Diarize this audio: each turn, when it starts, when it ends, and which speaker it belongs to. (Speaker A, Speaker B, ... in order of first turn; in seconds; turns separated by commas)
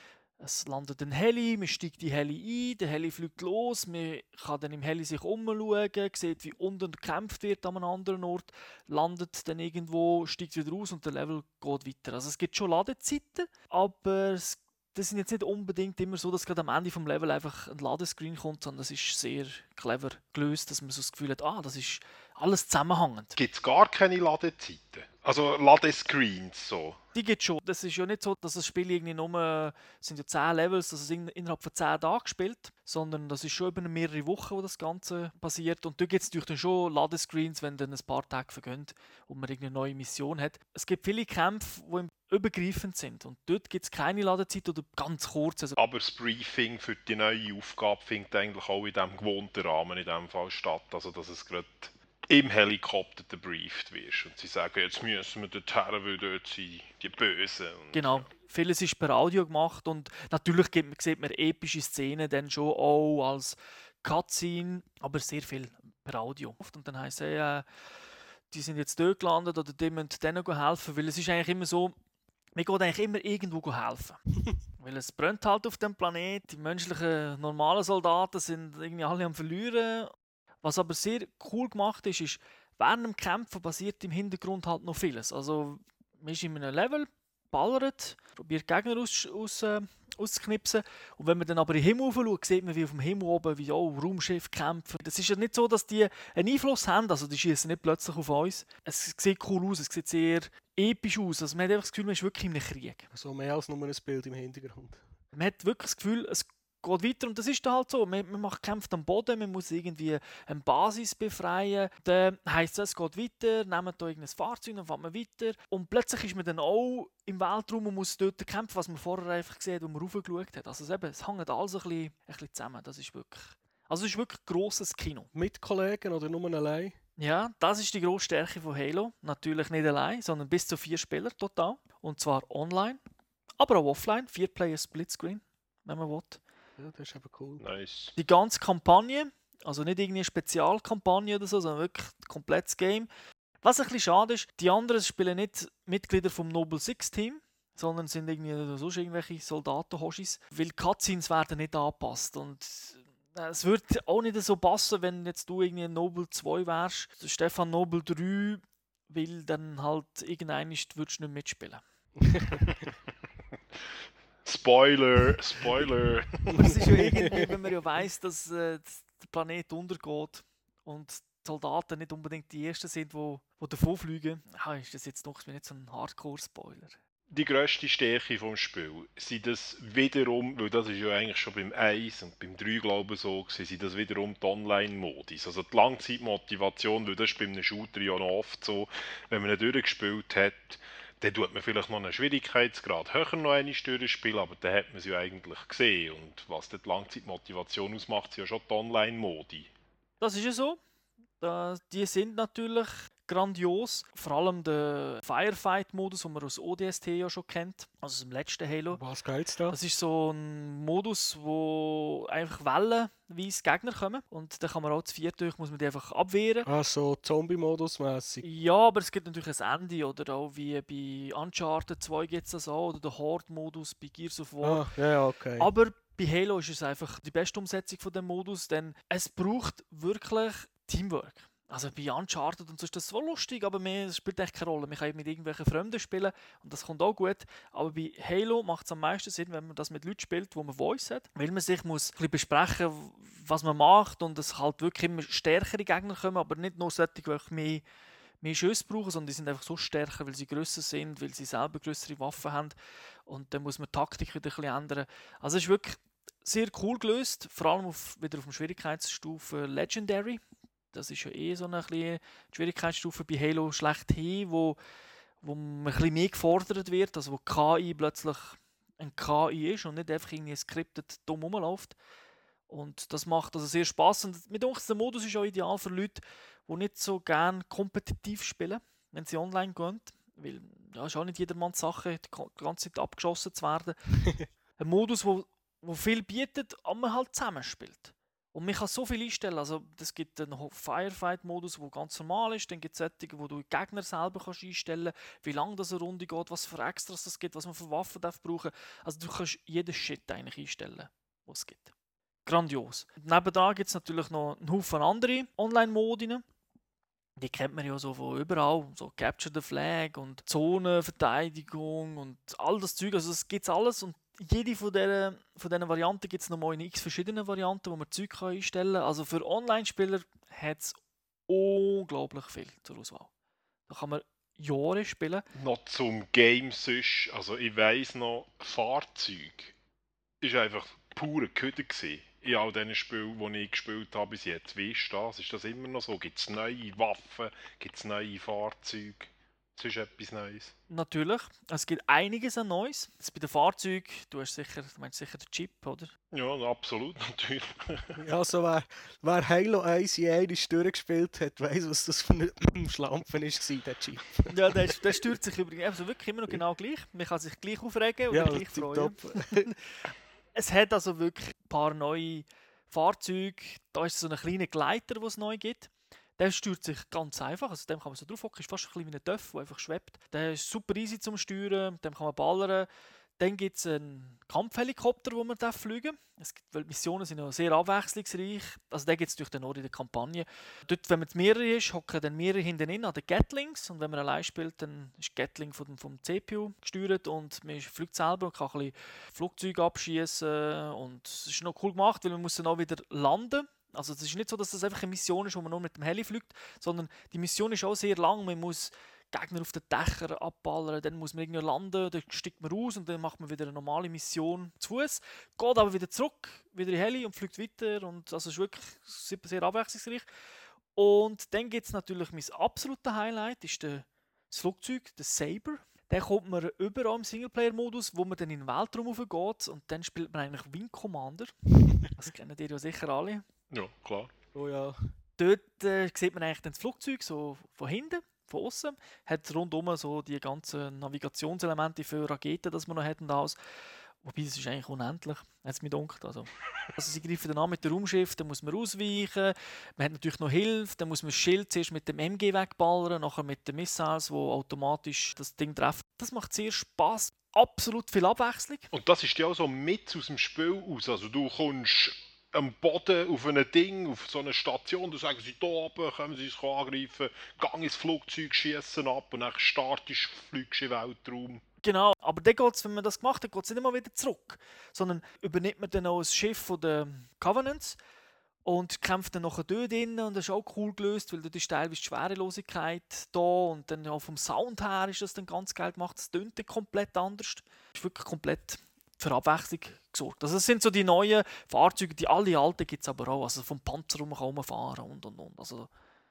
Speaker A: 0.4-23.4, Speaker B: 23.4-27.0, Speaker A: 27.1-45.8, Speaker B: 45.8-58.3, Speaker A: 57.9-67.6, Speaker A: 68.5-71.9, Speaker A: 72.5-80.1, Speaker A: 80.6-103.0, Speaker C: 103.1-105.0, Speaker A: 105.3-125.3, Speaker C: 125.3-126.9, Speaker A: 127.2-133.0, Speaker A: 133.6-136.4, Speaker C: 136.8-137.6, Speaker B: 137.6-138.2, Speaker A: 138.2-143.1, Speaker A: 143.6-161.8, Speaker C: 162.2-162.6, Speaker B: 164.4-166.7, Speaker C: 166.5-167.4, Speaker A: 166.5-177.0, Speaker B: 177.3-199.7, Speaker A: 200.2-200.8, Speaker A: 201.4-209.0, Speaker C: 208.9-209.8, Speaker A: 209.7-216.7, Speaker C: 216.6-218.4, Speaker A: 218.4-224.9, Speaker C: 224.6-225.7, Speaker A: 225.6-247.8, Speaker A: 248.4-252.7, Speaker A: 253.3-260.4, Speaker A: 260.9-264.8, Speaker A: 265.4-272.0, Speaker A: 272.7-283.9, Speaker A: 284.8-301.9, Speaker A: 302.4-306.4, Speaker A: 307.4-320.9, Speaker A: 321.5-323.3, Speaker A: 323.9-325.4, Speaker B: 325.5-329.7, Speaker B: 330.4-340.7, Speaker A: 340.9-346.1, Speaker B: 346.3-348.1, Speaker C: 348.2-355.0, Speaker A: 354.5-359.8, Speaker C: 358.3-359.7, Speaker A: 360.5-372.9, Speaker A: 373.4-410.2, Speaker A: 410.9-423.4, Speaker B: 423.7-424.3, Speaker C: 424.5-425.0, Speaker A: 425.4-433.6, Speaker A: 434.2-448.9, Speaker B: 448.9-461.6, Speaker A: 461.8-468.0, Speaker A: 468.6-485.9